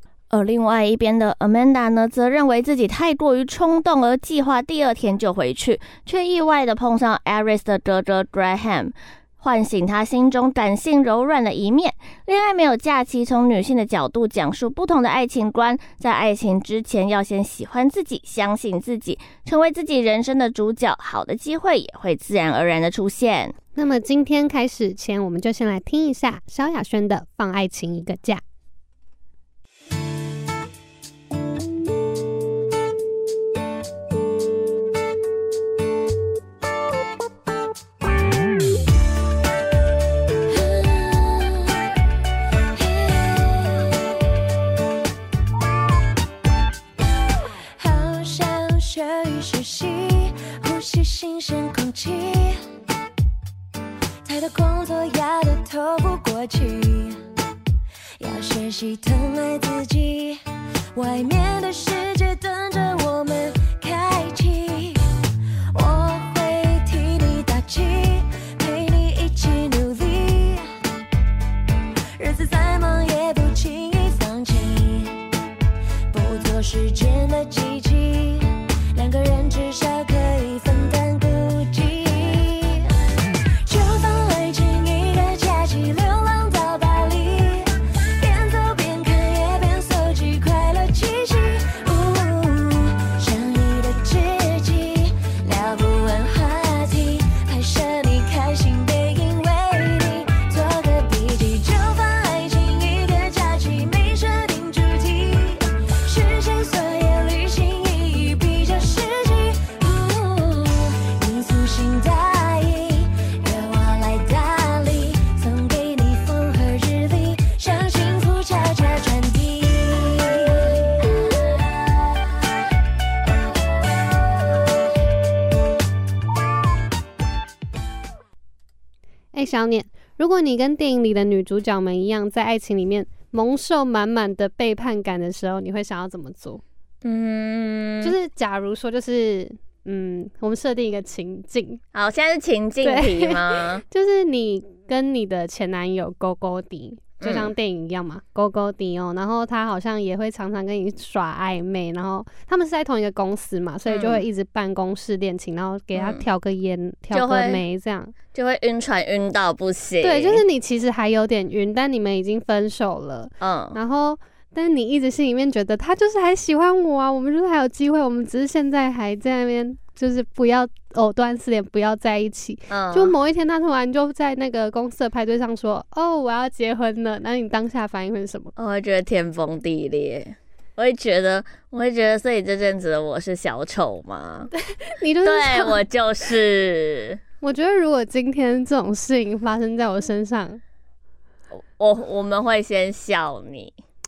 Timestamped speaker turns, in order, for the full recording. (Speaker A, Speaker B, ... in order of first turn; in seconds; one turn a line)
Speaker A: 0.3-23.6
Speaker B: 23.7-28.4
Speaker C: 40.5-41.9
Speaker C: 42.7-44.3
Speaker C: 47.8-52.6
Speaker C: 54.2-57.2
Speaker C: 58.2-60.4
Speaker C: 60.9-65.1
Speaker C: 65.7-70.7
Speaker C: 72.2-75.3
Speaker C: 76.1-121.3
Speaker B: 129.3-136.6
Speaker A: 137.0-138.1
Speaker B: 138.0-141.8
Speaker A: 141.9-143.8
Speaker B: 142.8-158.1
Speaker A: 147.2-147.5
Speaker A: 153.9-154.2
Speaker A: 155.9-156.2
Speaker A: 157.1-157.6
Speaker A: 158.3-160.4
Speaker B: 160.0-178.5
Speaker A: 163.4-163.8
Speaker A: 172.7-173.1
Speaker A: 178.6-184.5
Speaker B: 184.7-185.8
Speaker A: 185.2-187.2
Speaker B: 187.4-190.6
Speaker A: 191.5-193.8